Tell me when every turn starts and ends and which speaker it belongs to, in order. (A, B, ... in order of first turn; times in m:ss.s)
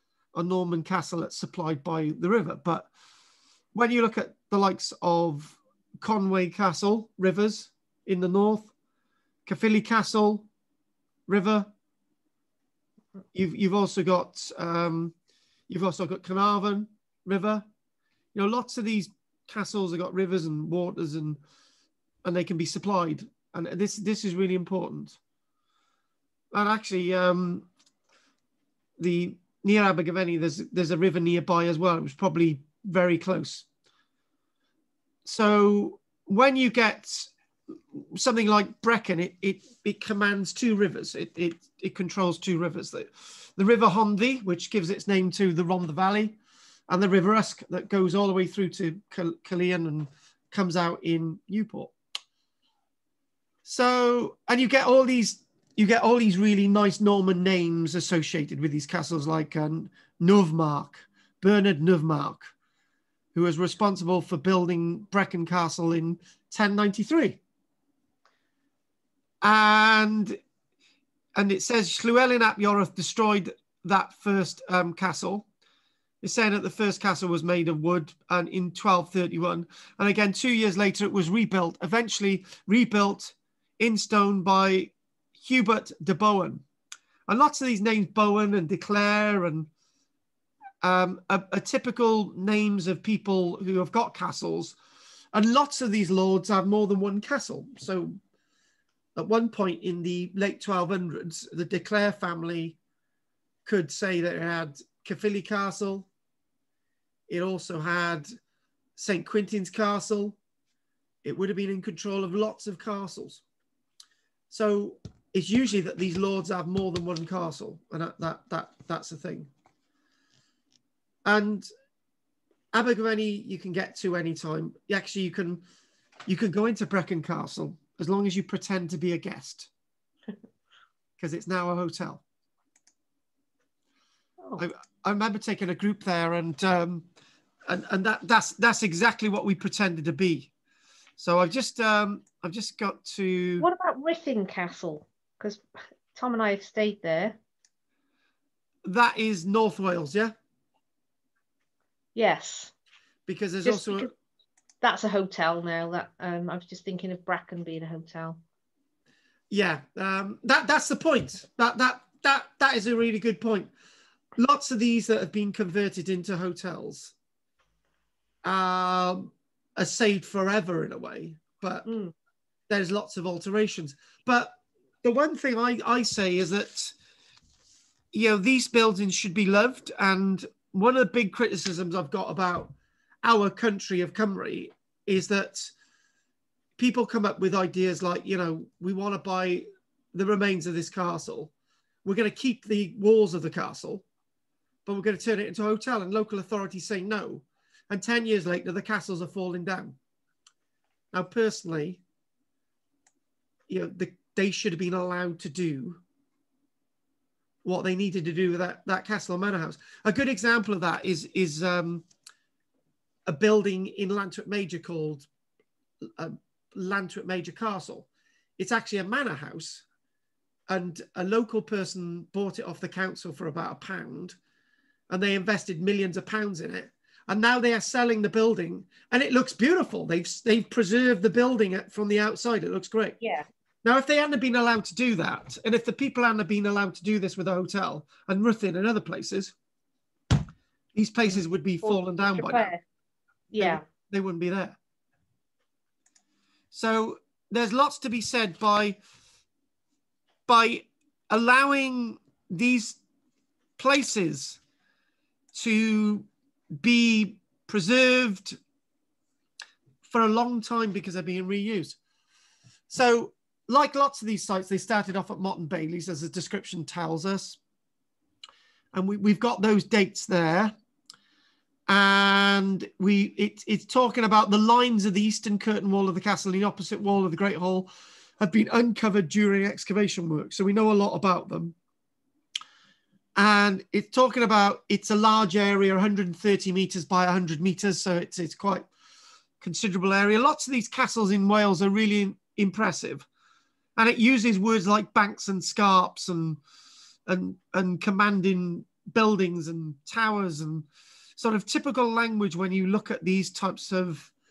0:00.4-0:02.9 A
0:03.7-0:08.7 A
0:09.5-0:10.5 A
0:11.3-0:11.7 A
0:13.4-0:15.1 A
0:15.7-0:17.7 A
0:18.3-0:21.4 A
0:22.2-0:25.2 A
0:26.5-0:27.7 A
0:29.0-0:33.7 A
0:35.3-0:37.3 A
0:38.0-0:46.4 A
0:46.9-0:51.9 A
0:53.6-1:02.5 A
1:03.4-1:07.4 A
1:09.4-1:10.4 A
1:11.4-1:15.5 A
1:16.2-1:26.6 A
1:27.3-1:29.7 A
1:30.8-1:34.8 A
1:35.3-1:38.2 A
1:39.2-1:42.8 A
1:43.6-1:46.1 A
1:47.3-1:48.3 A
1:49.0-1:50.4 A
1:51.2-1:53.4 A
1:54.5-1:59.5 A
2:01.2-2:01.7 A
2:02.7-2:05.6 A
2:06.3-2:09.7 A
2:11.2-2:12.2 A
2:14.6-2:17.0 A
2:17.7-2:20.5 A
2:21.2-2:23.7 A
2:23.6-2:27.4 B
2:28.8-2:30.3 A
2:32.2-2:32.7 B
2:33.3-2:34.1 A
2:33.6-2:34.1 B
2:34.8-2:38.4 B
2:39.5-2:43.7 A
2:44.4-2:47.1 A
2:48.4-2:51.9 A
2:51.9-2:52.1 B
2:52.7-2:56.9 A
2:58.1-3:05.7 A
3:06.8-3:11.5 A
3:12.0-3:14.0 A
3:14.9-3:20.0 A
3:21.1-3:22.0 A
3:23.7-3:26.0 A
3:27.6-3:32.1 A
3:33.3-3:35.3 A
3:36.1-3:38.1 A
3:38.6-3:39.8 A
3:40.7-3:44.4 A
3:45.1-3:53.2 A
3:53.2-3:53.5 B
3:53.8-3:59.5 A
4:01.0-4:02.7 A
4:01.3-4:02.8 B
4:03.5-4:03.8 B
4:03.6-4:04.8 A
4:06.7-4:09.0 A
4:10.5-4:13.0 A
4:13.8-4:14.6 A
4:15.5-4:16.3 A
4:16.8-4:18.6 A
4:20.0-4:22.0 A
4:22.9-4:27.6 A
4:28.9-4:30.8 A
4:31.9-4:41.8 A
4:43.4-4:48.9 A
4:49.6-4:53.3 A
4:54.0-4:56.6 A
4:57.3-5:00.9 A
5:01.4-5:04.3 A